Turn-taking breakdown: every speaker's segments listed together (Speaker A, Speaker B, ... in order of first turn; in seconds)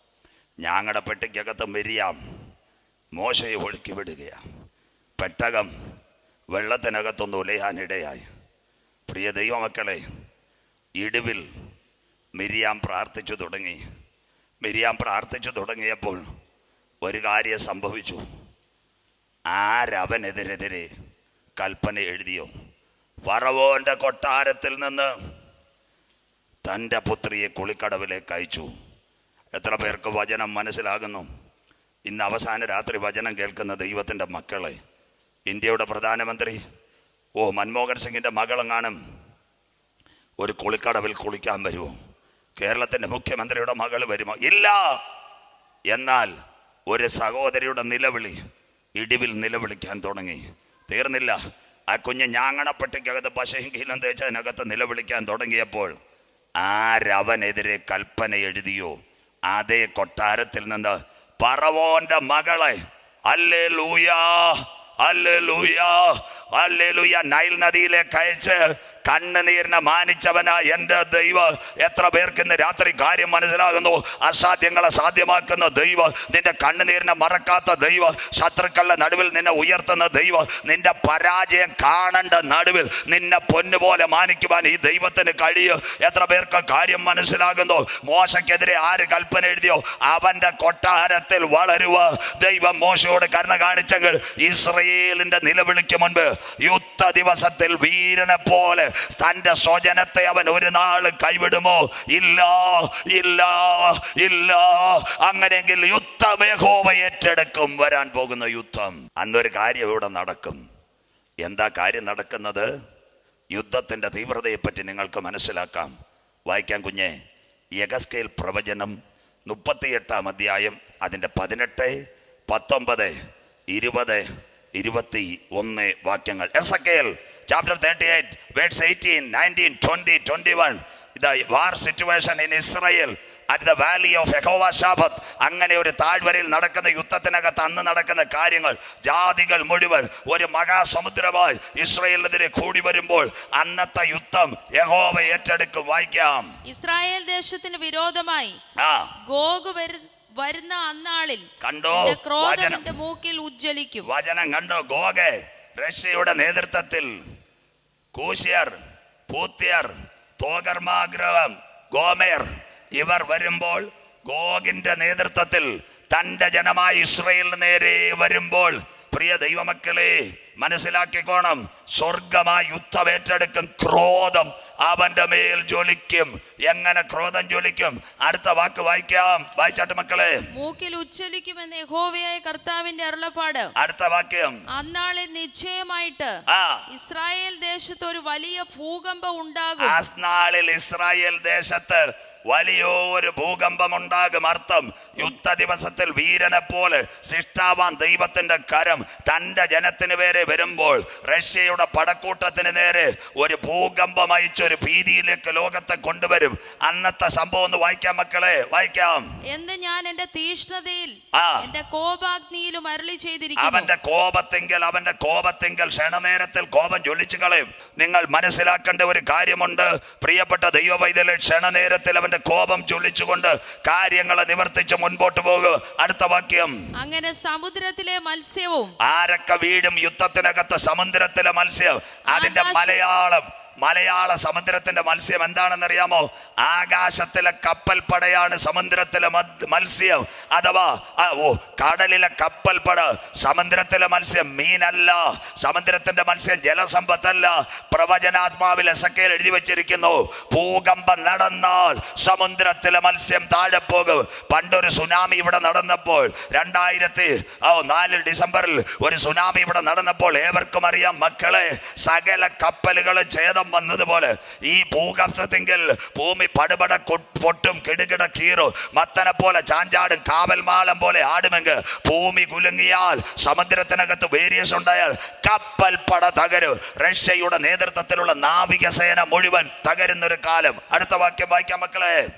Speaker A: 0.6-2.2, 3.1-4.4, 5.2-5.7, 6.5-8.2, 9.1-10.0, 11.0-11.5, 12.4-13.8, 14.6-16.3, 17.0-18.2, 19.5-20.9, 21.6-22.5, 23.3-25.1, 26.6-28.7, 29.6-31.3, 32.1-34.8, 35.5-36.6, 37.4-39.0, 40.4-42.0, 42.6-45.0, 45.9-46.3, 46.9-48.4, 49.0-51.4, 51.9-56.0, 56.6-59.0, 59.5-110.6, 111.4-112.7, 113.5-115.9, 116.5-117.2, 117.8-119.0, 119.5-123.2, 123.7-146.5, 148.8-149.1, 151.6-152.9, 154.1-157.1, 158.1-158.8, 159.3-180.4, 183.8-184.6, 186.5-186.8, 189.8-209.2, 211.3-211.7, 213.6-226.8, 229.0-282.2
Speaker B: 146.7-148.6, 149.3-154.1, 180.5-183.7, 184.7-186.3, 186.9-190.0, 209.5-213.9, 227.0-228.9, 232.3-233.0